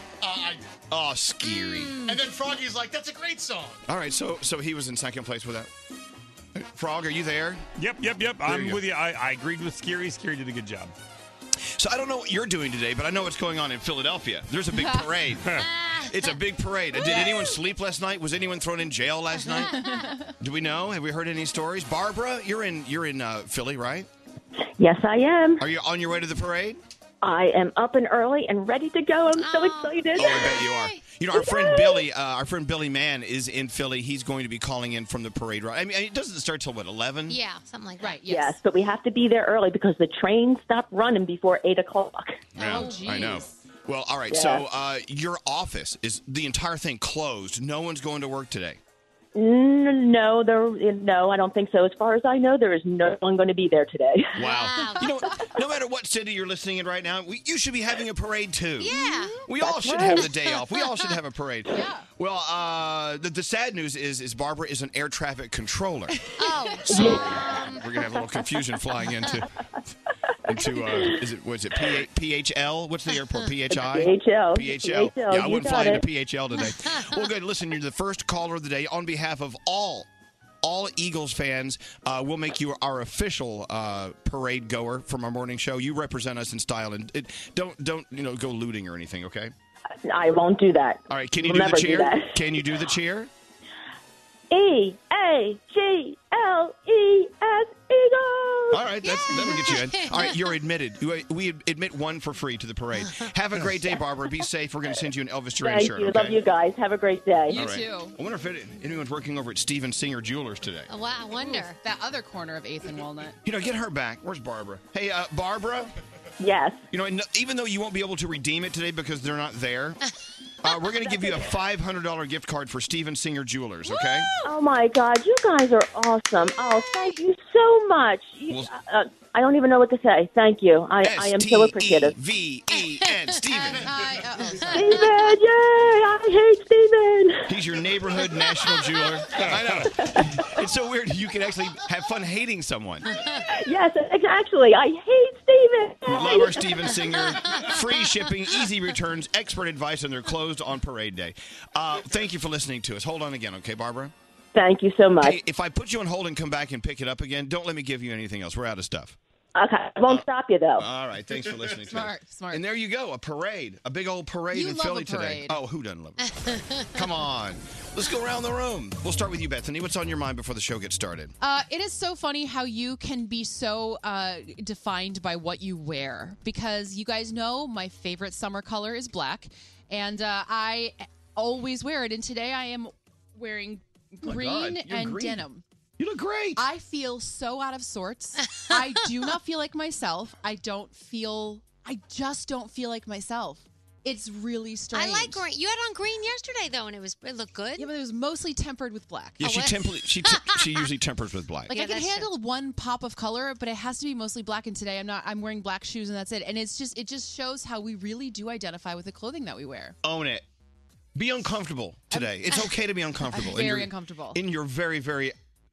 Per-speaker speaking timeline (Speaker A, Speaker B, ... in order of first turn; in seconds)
Speaker A: 0.2-0.7, 2.1-3.8
Speaker B: 0.9-2.1, 3.9-5.7, 6.5-7.6, 8.4-8.8, 11.8-19.8, 20.4-24.1, 25.6-26.8, 30.1-37.4, 42.5-48.8, 54.4-58.9, 59.5-66.1, 66.8-69.5, 70.5-80.1, 80.6-89.5, 91.1-93.3, 98.7-106.4, 107.5-110.9, 113.4-115.9, 116.9-120.0, 120.6-124.3, 131.0-133.9, 137.5-143.1, 146.1-154.1, 155.2-159.2, 160.8-171.3, 184.2-185.4, 186.0-186.6, 199.4-201.7, 210.0-210.4, 211.1-215.3
Speaker C: 1.4-2.2, 15.6-16.4, 17.0-17.5, 19.4-20.1, 29.4-31.0, 37.3-38.2, 54.4-55.1, 58.8-59.4, 60.7-61.1, 66.4-67.8, 99.0-100.5, 103.0-103.3, 110.9-111.8, 123.8-124.5, 134.6-135.1, 166.4-167.0, 194.9-197.9, 199.4-200.9, 201.7-202.3
Speaker D: 7.8-10.9, 139.4-139.9
Speaker E: 14.7-15.1, 19.7-20.3, 38.0-38.5, 42.6-43.5, 58.9-59.2, 61.7-62.0, 107.5-108.2, 111.4-113.3, 133.7-134.8, 161.9-162.6, 164.5-165.6, 171.4-185.6, 186.6-195.4, 197.8-199.4, 201.7-210.0, 213.3-214.4
Speaker F: 24.8-25.6, 27.2-30.6, 31.3-32.0, 38.3-42.5, 44.3-44.6, 49.3-54.4, 59.5-60.3, 66.9-67.3, 70.5-71.2, 73.7-76.0, 90.0-92.3, 94.5-98.8, 105.6-107.6, 116.4-116.8, 121.0-121.5, 124.4-132.1, 134.7-137.5, 139.8-140.2, 143.5-147.0, 154.5-155.4, 159.5-160.8